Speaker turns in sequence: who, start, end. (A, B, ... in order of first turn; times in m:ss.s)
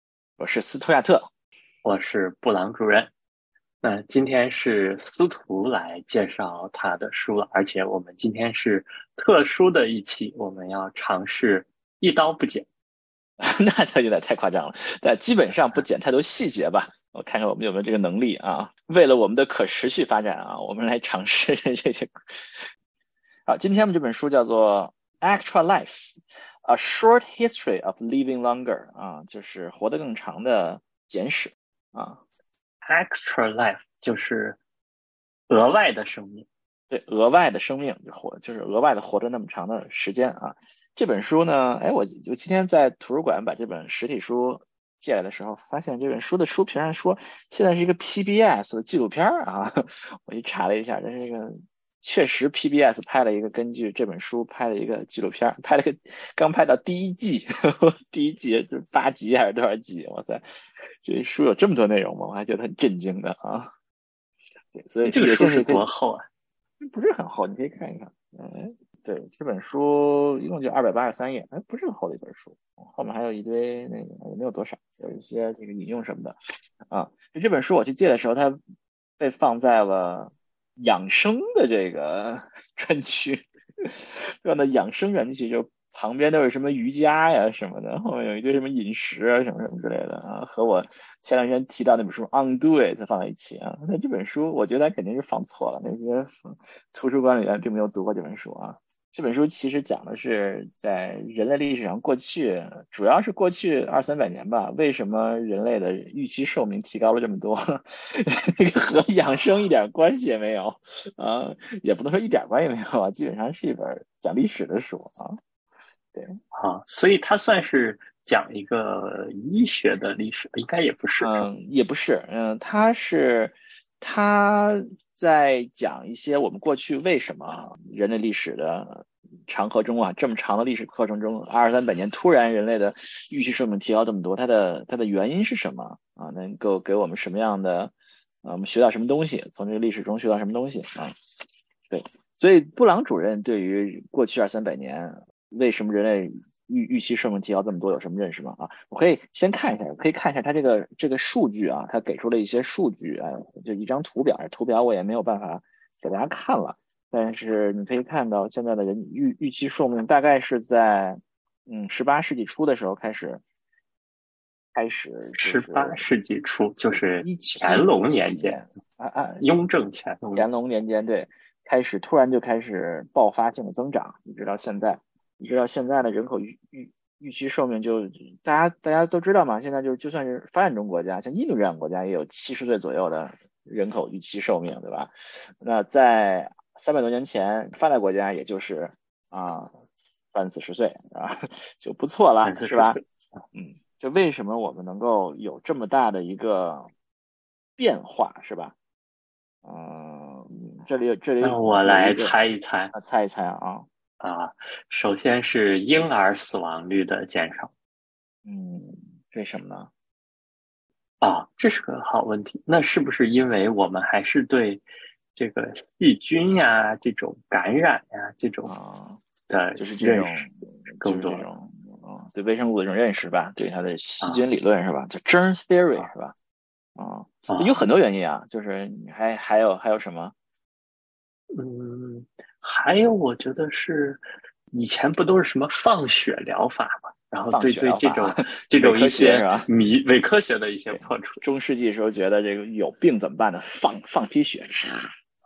0:00.4-0:01.3 A
0:01.8-0:03.1 B
0:03.8-0:12.6 B
0:13.4-0:22.6 A
0:23.5-0:32.2 A
0:32.8-0:34.6 B
0:35.5-0:36.5 B
0:36.9-1:00.4 A
1:01.0-1:03.7 A
1:04.8-1:05.9 A
1:05.0-1:06.3 B
1:06.8-1:16.4 A
1:16.9-1:18.6 A
1:19.2-1:55.4 A
1:56.5-2:01.5 B
2:01.2-2:17.9 A
2:18.4-2:21.1 A
2:21.9-2:43.4 A
2:44.8-2:46.1 A
2:45.4-2:48.6 B
2:46.9-2:49.4 A
2:49.4-2:50.5 B
2:50.3-3:09.8 A
3:10.3-3:13.0 A
3:12.4-3:13.0 B
3:13.6-3:16.9 A
3:17.8-3:18.8 A
3:19.6-3:22.4 A
3:21.4-3:22.9 B
3:22.9-3:23.9 A
3:24.2-3:27.7 B
3:28.5-3:29.9 A
3:31.2-3:38.7 B
3:38.6-3:39.2 A
3:39.5-3:40.4 B
3:39.8-3:46.4 A
3:41.0-3:41.4 B
3:47.0-3:50.3 A
3:47.5-3:47.8 B
3:51.6-3:54.2 B
3:54.7-4:01.4 B
3:57.5-3:59.7 A
4:00.9-4:05.1 A